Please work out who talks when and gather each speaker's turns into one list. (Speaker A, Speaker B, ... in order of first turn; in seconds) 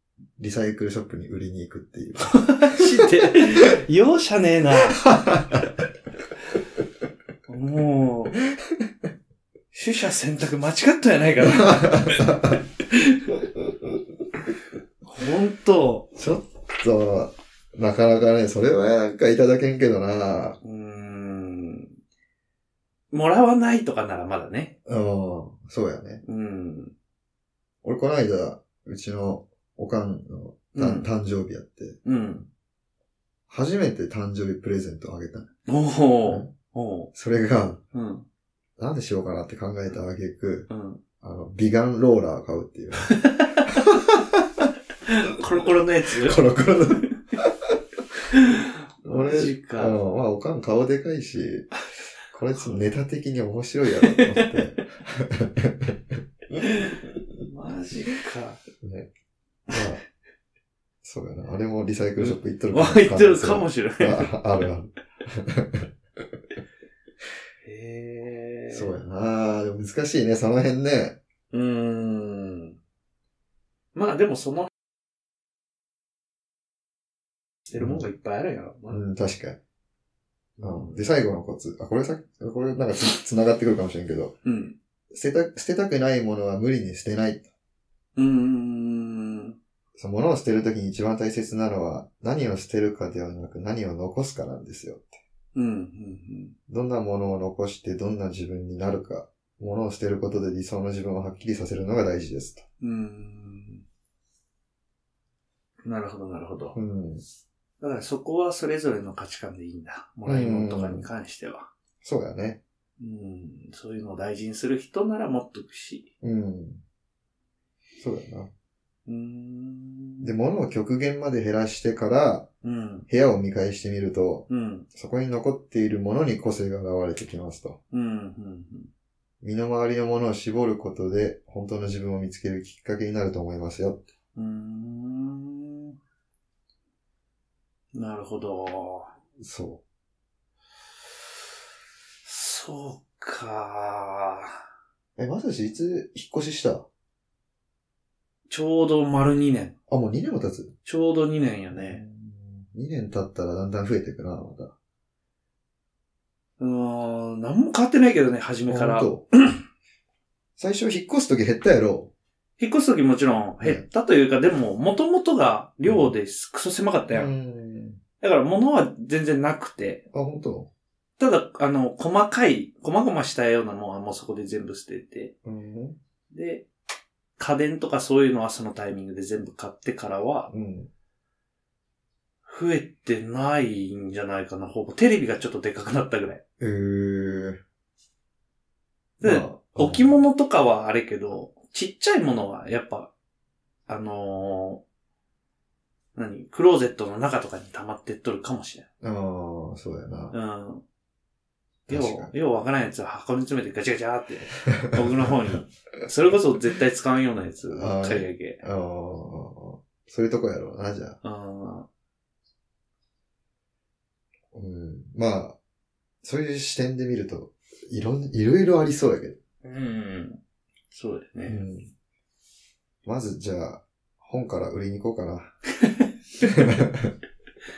Speaker A: 0.4-3.4, 5.1-5.6, 11.5-12.6, 16.1-20.6, 24.9-26.2, 27.8-32.0, 33.5-35.5, 36.2-36.5, 37.1-37.8, 38.8-40.7, 41.2-44.7, 46.1-47.5, 49.0-51.7, 52.3-56.2, 58.8-59.1, 59.7-60.0, 61.0-65.9, 68.7-71.2, 77.8-78.0, 78.9-79.6, 80.6-84.3, 85.1-87.5, 90.0-95.2, 96.7-102.6, 106.7-107.2, 110.2-111.1, 112.0-112.6, 116.2-116.8, 118.0-118.5, 120.2-122.5, 123.1-127.8, 129.4-134.0, 139.4-139.8, 145.2-146.9, 149.9-150.7, 151.7-154.7, 158.7-159.2, 160.6-162.1, 165.8-166.1, 167.1-168.0, 170.1-170.7, 175.4-176.0, 180.5-180.9, 186.6-187.6, 189.2-190.1, 199.0-200.3, 201.9-202.3, 204.8-205.0, 207.7-211.2, 214.5-215.6, 216.2-219.4, 221.5-221.9, 223.0-225.5, 226.4-227.1
Speaker B: 2.3-5.1, 7.5-8.4, 9.7-13.4, 15.0-16.1, 20.6-21.9, 23.1-24.7, 26.2-26.9, 30.7-31.1, 32.0-32.5, 35.6-37.1, 37.9-38.2, 40.7-41.0, 43.0-43.7, 45.0-47.1, 48.3-50.0, 52.5-52.8, 54.0-54.6, 56.6-58.6, 62.2-64.4, 67.6-69.0, 71.5-72.8, 73.9-74.7, 77.7-79.0, 80.6-81.0, 84.4-84.8, 88.2-89.5, 95.5-96.5, 102.8-103.8, 105.8-106.8, 107.8-111.7, 113.0-116.1, 119.1-120.3, 122.6-123.1, 124.5-124.9, 127.9-128.9, 134.3-135.9, 137.9-139.1, 142.2-144.5, 148.5-149.7, 150.8-152.0, 156.6-159.6, 162.6-167.3, 168.2-170.0, 171.2-175.3, 176.3-176.7, 177.4-180.5, 182.4-186.4, 189.2-193.1, 193.9-194.8, 196.1-198.9, 200.3-200.8, 201.9-208.6, 211.2-211.9, 219.6-220.4, 220.9-221.6, 225.8-226.6